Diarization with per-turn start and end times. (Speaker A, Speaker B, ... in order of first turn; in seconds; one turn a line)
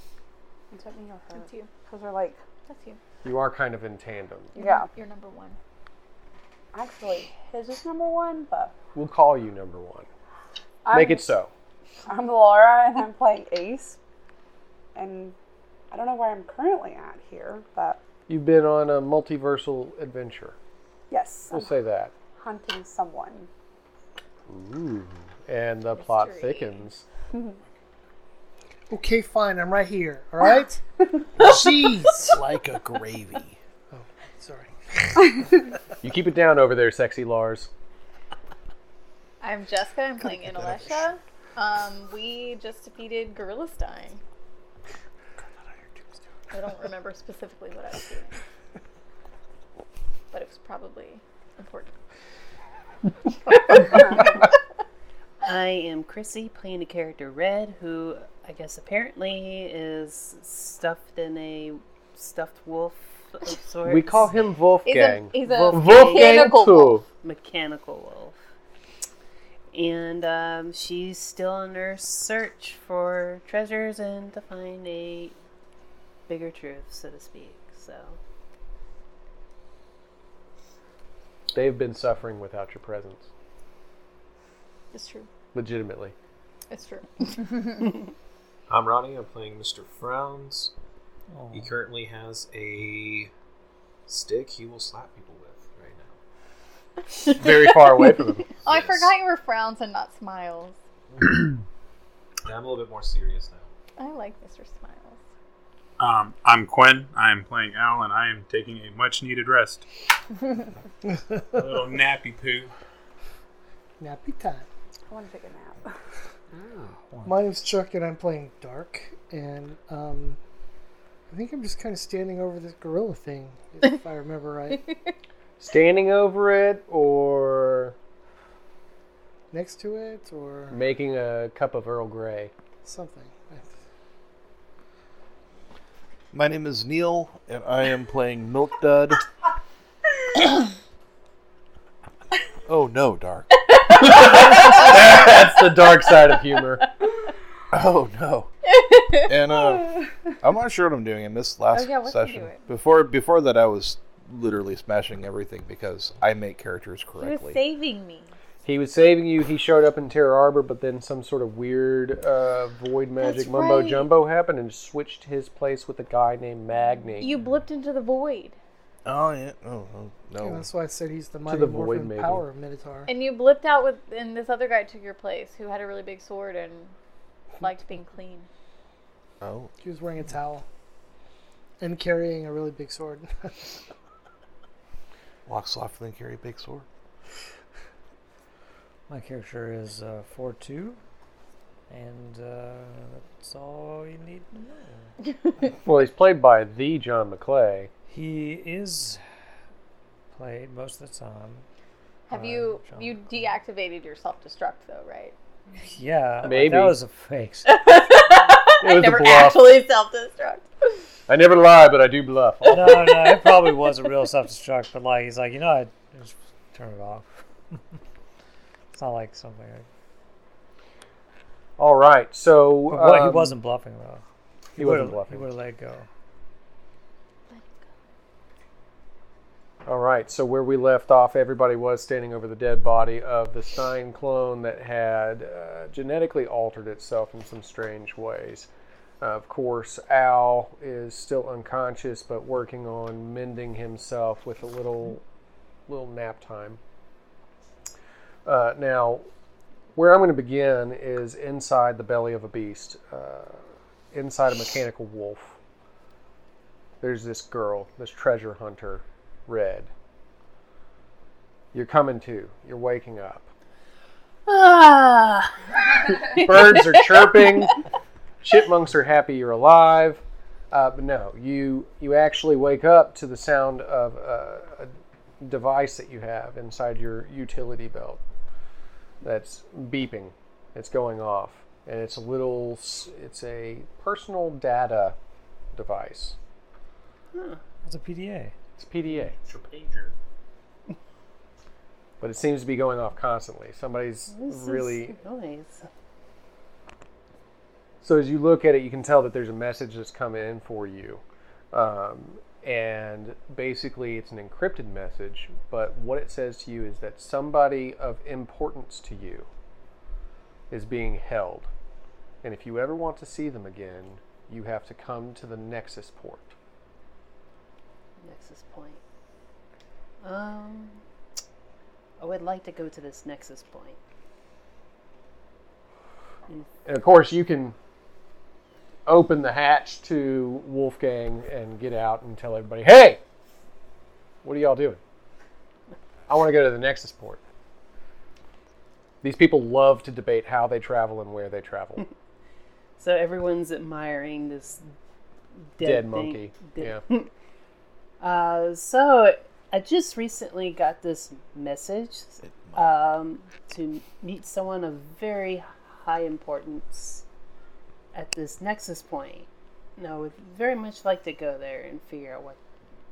Speaker A: 0.7-2.4
Speaker B: 1.3-1.7
Speaker B: 2.7-3.0
Speaker C: 3.2-4.5
Speaker A: 4.5-4.9
Speaker B: 4.5-5.6
Speaker A: 6.7-8.7
Speaker C: 8.9-10.1
Speaker A: 10.8-11.3
Speaker C: 10.9-11.5
Speaker A: 12.1-14.0
Speaker A: 14.9-15.3
Speaker A: 15.9-18.0
Speaker C: 18.3-20.6
Speaker A: 21.1-21.8
Speaker C: 21.5-22.1
Speaker A: 22.4-23.5
Speaker C: 24.5-27.0
Speaker B: 25.9-26.9
Speaker D: 28.9-30.8
Speaker D: 31.3-32.2
Speaker E: 31.4-33.6
Speaker D: 33.9-35.2
Speaker C: 36.0-37.7
Speaker B: 39.4-44.2
Speaker B: 46.5-48.4
Speaker B: 50.3-51.9
Speaker B: 53.5-53.8
Speaker F: 55.4-64.4
Speaker C: 63.8-67.0
Speaker B: 64.8-67.0
Speaker F: 65.6-66.5
Speaker F: 67.2-68.3
Speaker F: 69.7-75.3
Speaker F: 76.3-78.2
Speaker C: 81.5-83.3
Speaker B: 84.9-85.3
Speaker C: 85.5-86.1
Speaker B: 86.7-88.0
Speaker G: 88.7-90.7
Speaker H: 91.3-91.7
Speaker G: 91.5-93.3
Speaker G: 94.0-96.2
Speaker B: 97.1-97.7
Speaker C: 97.3-98.5
Speaker B: 98.6-100.8
Speaker G: 98.7-99.1
Speaker G: 101.1-101.5
Speaker G: 102.4-103.7
Speaker B: 104.0-105.2
Speaker I: 106.0-109.8
Speaker I: 111.5-112.7
Speaker D: 114.0-114.7
Speaker A: 115.1-115.9
Speaker H: 116.8-117.4
Speaker D: 117.2-120.4
Speaker D: 121.3-124.9
Speaker C: 125.6-127.9
Speaker D: 129.5-130.8
Speaker C: 130.7-132.5
Speaker D: 132.8-133.7
Speaker E: 136.3-139.2
Speaker E: 142.7-143.5
Speaker B: 143.7-145.0
Speaker C: 144.0-146.9
Speaker E: 147.7-148.5
Speaker B: 148.6-149.3
Speaker E: 149.2-157.6
Speaker B: 151.7-152.6
Speaker B: 157.2-158.3
Speaker C: 158.6-167.3
Speaker B: 163.2-164.1
Speaker B: 167.2-168.6
Speaker E: 169.0-170.7
Speaker D: 170.4-173.1
Speaker C: 171.4-172.4
Speaker B: 173.1-176.9
Speaker B: 177.6-178.5
Speaker E: 179.4-179.7
Speaker D: 179.8-180.6
Speaker D: 181.8-183.8
Speaker E: 185.4-186.8
Speaker H: 189.1-191.0
Speaker H: 191.9-195.1
Speaker C: 195.8-197.9
Speaker H: 198.1-199.2
Speaker H: 200.3-201.6
Speaker B: 202.3-205.3
Speaker H: 202.3-203.3
Speaker H: 205.9-207.7
Speaker C: 206.4-207.0
Speaker B: 207.7-210.7
Speaker C: 208.8-209.8
Speaker C: 211.3-213.2
Speaker H: 212.7-217.8
Speaker H: 218.9-219.8
Speaker C: 221.8-223.6
Speaker H: 222.9-224.2
Speaker H: 224.7-226.1
Speaker C: 224.8-225.5
Speaker B: 227.5-227.8
Speaker C: 229.8-238.7
Speaker C: 239.2-245.2
Speaker C: 245.9-246.8
Speaker C: 248.4-249.3
Speaker C: 249.9-255.6
Speaker C: 257.0-259.9
Speaker C: 261.7-263.5
Speaker F: 264.4-267.3
Speaker C: 266.3-267.8
Speaker C: 268.4-278.2
Speaker C: 279.2-285.1
Speaker C: 285.7-286.4
Speaker F: 287.3-287.6
Speaker H: 287.9-288.5
Speaker C: 288.8-289.3
Speaker I: 289.1-290.1
Speaker C: 292.2-295.2
Speaker F: 294.3-295.9
Speaker C: 298.0-309.5
Speaker C: 310.7-311.7
Speaker C: 312.4-316.5
Speaker F: 318.2-319.0
Speaker F: 320.2-321.0
Speaker F: 322.2-324.0
Speaker C: 326.9-327.8
Speaker C: 329.1-333.2
Speaker C: 334.4-335.0
Speaker C: 336.3-337.4
Speaker C: 339.2-342.1
Speaker F: 343.0-344.8
Speaker F: 345.7-347.3
Speaker C: 345.8-347.0
Speaker F: 348.2-357.2
Speaker E: 352.4-352.8
Speaker F: 358.1-362.6